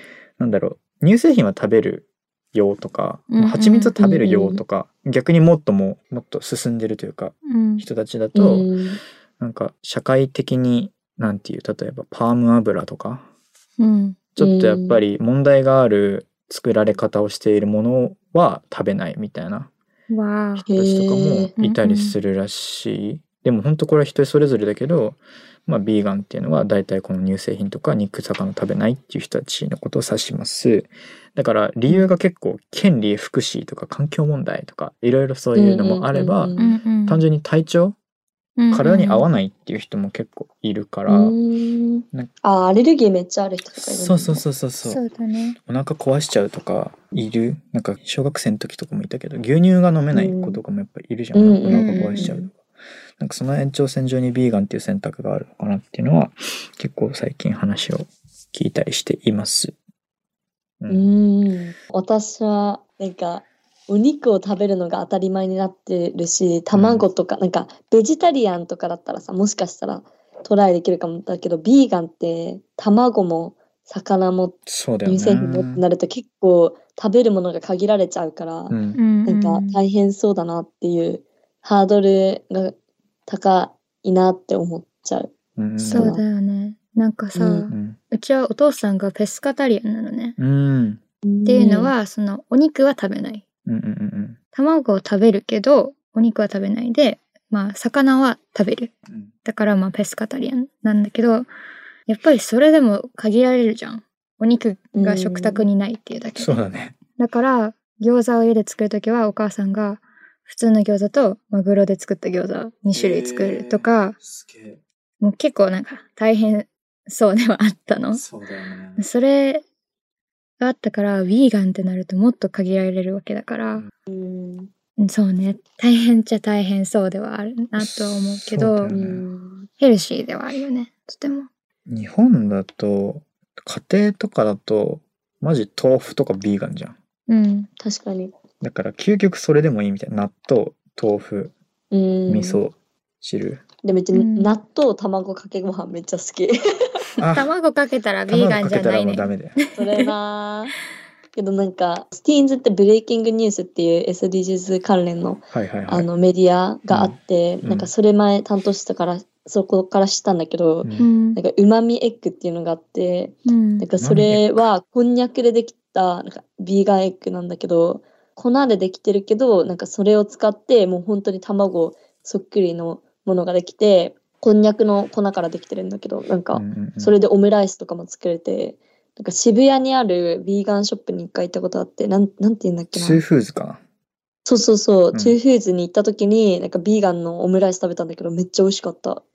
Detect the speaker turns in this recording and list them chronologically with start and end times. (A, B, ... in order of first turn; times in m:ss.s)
0:00.4-0:08.7 A
0:03.3-0:04.0 B
0:04.0-0:04.6 C
0:07.4-0:07.8 B
0:08.4-0:09.0 C
0:09.4-0:13.3 A
0:13.8-0:14.2 B
0:14.4-0:19.7 A
0:14.4-0:15.0 C
0:20.1-0:20.7 B
0:20.7-0:21.5 C
0:20.8-0:36.5 A
0:21.6-0:22.2 B
0:35.6-0:36.8 C
0:36.6-0:37.2 B
0:37.1-0:38.0 A
0:38.6-0:39.3 B
0:38.7-0:41.4 A
0:41.1-0:44.4 C
0:43.8-0:45.0 A
0:44.8-0:45.6 B
0:45.6-0:52.5 A
0:50.1-0:50.6 C
0:51.3-0:52.5 C
0:51.7-0:52.3 B
0:53.2-0:59.8 A
1:00.8-1:01.1 A
1:00.9-1:22.8 C
1:06.7-1:07.0 A
1:14.7-1:15.8 A
1:18.7-1:19.0 A
1:19.0-1:19.8 B
1:23.3-1:26.2 C
1:25.6-1:26.2 A
1:25.8-1:30.4 B
1:27.3-1:27.7 C
1:27.7-1:28.0 A
1:30.4-1:31.0 A
1:31.2-1:31.9 C
1:31.4-1:33.4 B
1:33.7-1:34.4 A
1:34.5-1:38.9 B
1:39.4-1:41.5 B
1:42.1-1:46.6 B
1:45.0-1:45.7 C
1:46.4-1:47.0 A
1:47.2-1:54.2 B
1:52.9-1:54.8 A
1:55.2-1:58.2 B
1:58.1-1:59.0 A
1:59.0-1:59.6 B
2:00.6-2:03.8 B
2:04.1-2:04.7 C
2:05.0-2:09.0 B
2:07.8-2:09.2 A
2:08.9-2:09.7 C
2:09.8-2:11.5 B
2:11.9-2:17.0 A
2:17.3-2:17.7 B
2:17.8-2:18.3 C
2:18.6-2:21.5 A
2:21.9-2:22.6 C
2:22.3-2:23.6 A
2:23.8-2:27.0 C
2:24.1-2:24.6 B
2:27.2-2:30.1 B
2:27.2-2:27.5 A
2:28.3-2:29.6 A
2:29.8-2:30.8 C
2:31.4-3:03.2 C
2:35.5-2:36.1 A
2:36.9-2:37.9 A
2:40.8-2:41.1 A
2:41.0-2:41.4 B
2:43.5-2:43.9 B
2:44.0-2:44.7 A
2:56.5-2:57.1 A
3:02.9-3:03.8 A
3:04.5-3:09.2 C